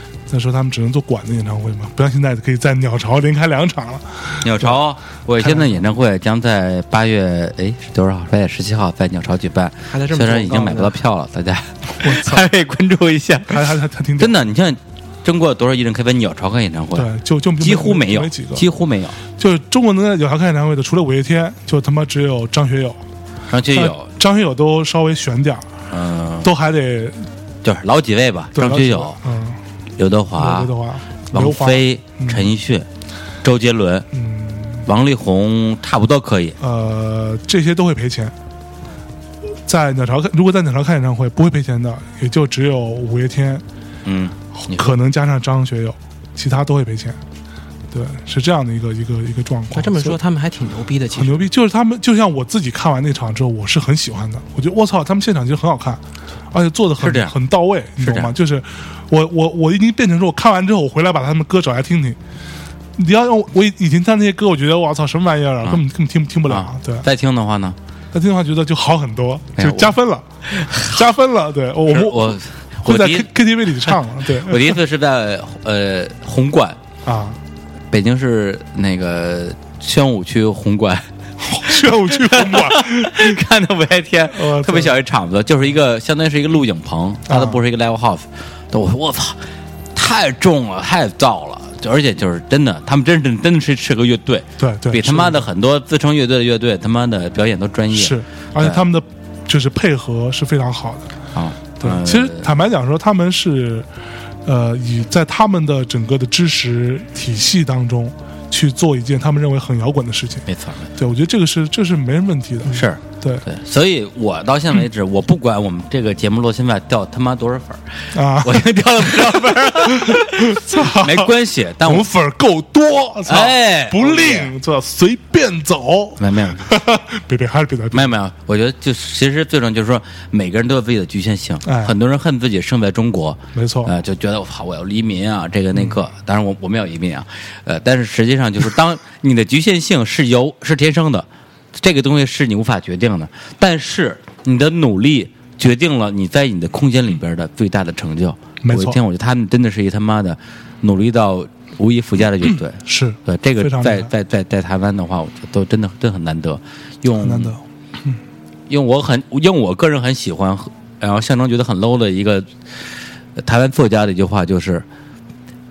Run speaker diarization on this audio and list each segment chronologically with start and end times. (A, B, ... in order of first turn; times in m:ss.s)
0:00.3-0:04.8 A
0:04.4-0:19.2 B
0:05.4-0:05.8 A
0:09.9-0:10.9 C
0:12.0-0:12.5 A
0:13.5-0:14.4 A
0:17.0-0:18.7 A
0:19.4-0:23.0 A
0:23.5-0:24.1 B
0:23.7-0:25.7 A
0:25.9-0:26.5 B
0:26.4-0:27.3 A
0:27.6-0:29.2 B
0:28.6-0:29.6 A
0:30.0-0:30.7 B
0:30.4-0:32.5 A
0:31.3-0:32.9 B
0:33.4-0:34.1 B
0:34.1-0:34.9 A
0:34.9-0:36.6 B
0:36.6-0:38.4 A
0:39.7-0:43.6 A
0:44.0-0:44.9 B
0:44.6-0:47.2 A
0:47.9-0:50.2 A
0:49.8-0:51.5 C
0:51.2-1:02.2 A
0:57.0-0:57.4 B
0:58.0-0:58.3 B
1:03.0-1:07.1 A
1:06.5-1:07.8 B
1:08.1-1:14.8 A
1:09.6-1:09.9 B
1:10.5-1:11.0 B
1:11.9-1:13.3 B
1:13.8-1:16.8 B
1:17.0-1:17.4 A
1:17.9-1:21.1 B
1:21.4-1:23.4 A
1:21.7-1:29.4 B
1:24.3-1:24.9 A
1:27.3-1:27.6 A
1:30.0-1:38.8 B
1:34.6-1:35.4 A
1:37.9-1:41.1 A
1:41.4-1:42.5 B
1:41.8-1:43.9 A
1:44.4-1:53.4 A
1:50.5-1:50.9 B
1:52.7-2:02.1 B
1:58.1-2:08.2 A
2:03.3-2:04.5 B
2:06.2-2:06.7 B
2:07.9-2:37.5 B
2:11.6-2:12.0 A
2:13.5-2:13.9 A
2:15.7-2:16.0 A
2:28.6-2:29.0 A
2:32.9-2:34.1 A
2:37.2-2:38.2 A
2:38.7-2:42.5 B
2:43.4-2:44.8 B